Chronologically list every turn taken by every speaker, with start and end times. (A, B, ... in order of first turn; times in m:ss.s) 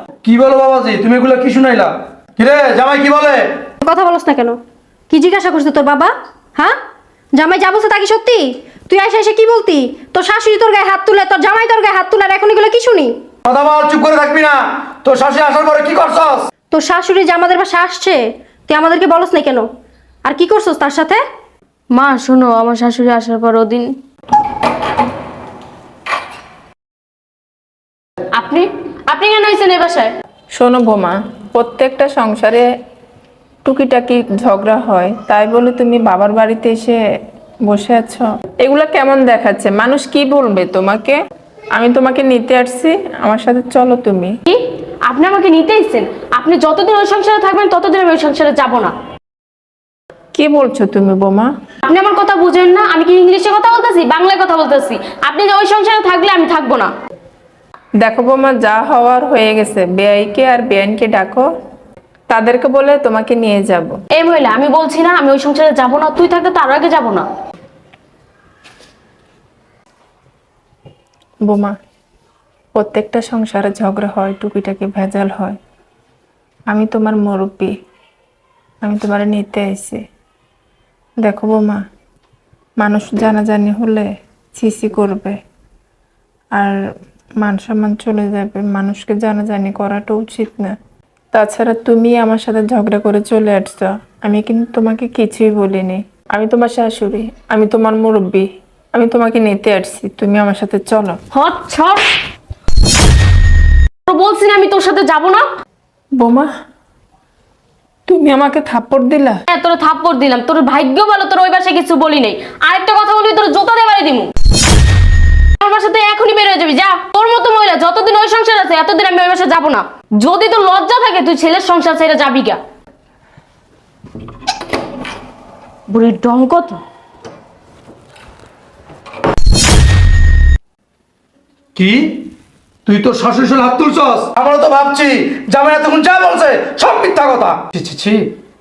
0:00.2-0:03.4 A
0:03.8-0:04.6 B
0:05.1-0:06.8 B
0:07.4-0:13.1 B
0:13.4-0:16.5 A
0:16.7-0:19.7 B
0:20.2-0:21.2 B
0:21.9-0:23.9 C
0:28.3-0:30.1 C
0:30.5-0:32.6 D
0:33.6-0:37.0 D
0:37.6-0:41.2 D
0:41.8-0:44.3 D
0:44.5-0:48.9 C
0:50.3-0:51.5 D
0:51.8-0:56.9 C
0:58.0-1:01.4 D
1:02.3-1:03.9 D
1:04.1-1:07.2 C
1:11.4-1:11.7 D
1:12.8-1:15.6 D
1:16.7-1:17.7 D
1:18.8-1:20.0 D
1:21.2-1:21.8 D
1:22.8-1:25.3 D
1:27.4-1:30.7 D
1:31.3-1:41.2 D
1:41.3-1:42.0 C
1:44.1-1:45.4 C
1:46.2-1:46.5 D
1:48.1-1:49.4 D
1:49.5-1:54.3 C
1:55.6-2:02.6 C
2:05.9-2:06.8 C
2:11.8-2:12.3 A
2:12.8-2:18.2 A